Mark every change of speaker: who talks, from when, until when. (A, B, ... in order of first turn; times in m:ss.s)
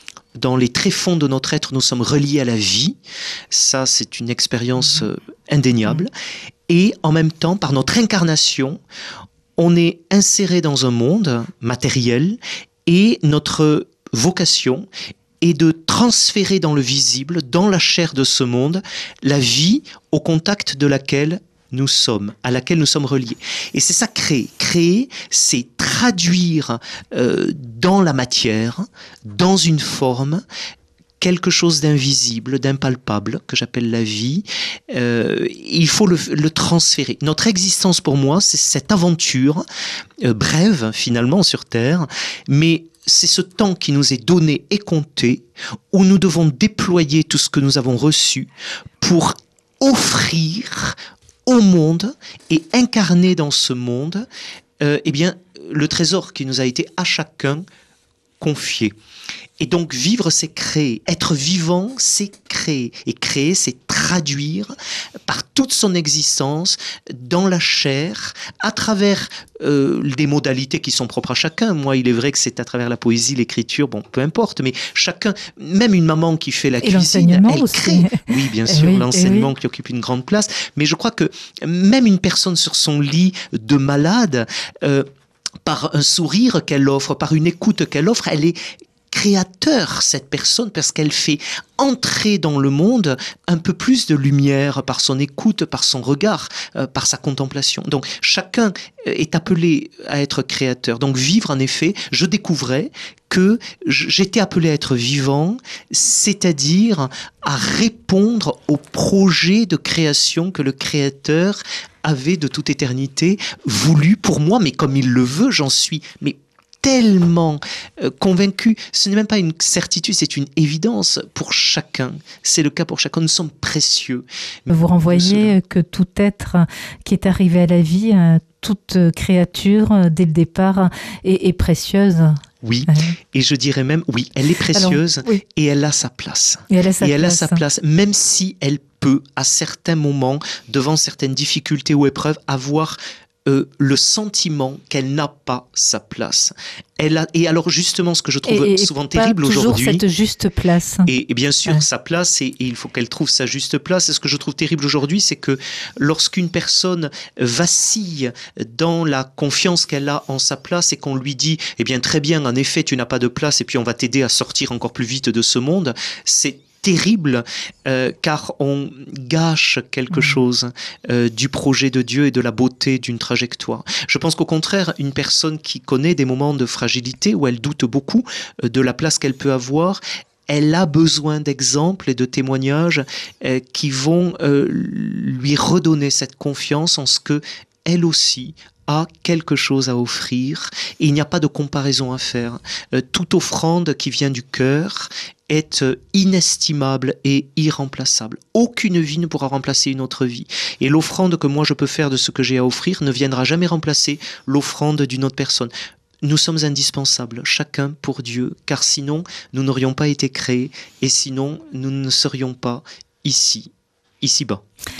0:00.4-0:03.0 A
0:03.5-0:06.1 A
0:06.7-0:08.8 A
0:09.6-0:14.9 A
0:15.4-0:30.4 A
0:31.2-0:39.6 A
0:40.2-0:48.5 A
0:49.0-0:54.2 A
0:54.8-0:57.6 A
0:58.4-0:58.9 A
0:59.6-1:04.7 A
1:05.3-1:25.0 A
1:16.8-1:19.5 B
1:25.6-1:28.6 A
1:29.1-2:05.5 A
2:04.7-2:13.2 B
2:12.6-2:30.0 A
2:14.7-2:15.4 B
2:16.7-2:17.6 B
2:28.4-2:31.1 B
2:31.1-3:25.7 A
2:50.1-2:50.4 B
3:26.2-3:33.7 A
3:34.2-3:34.6 A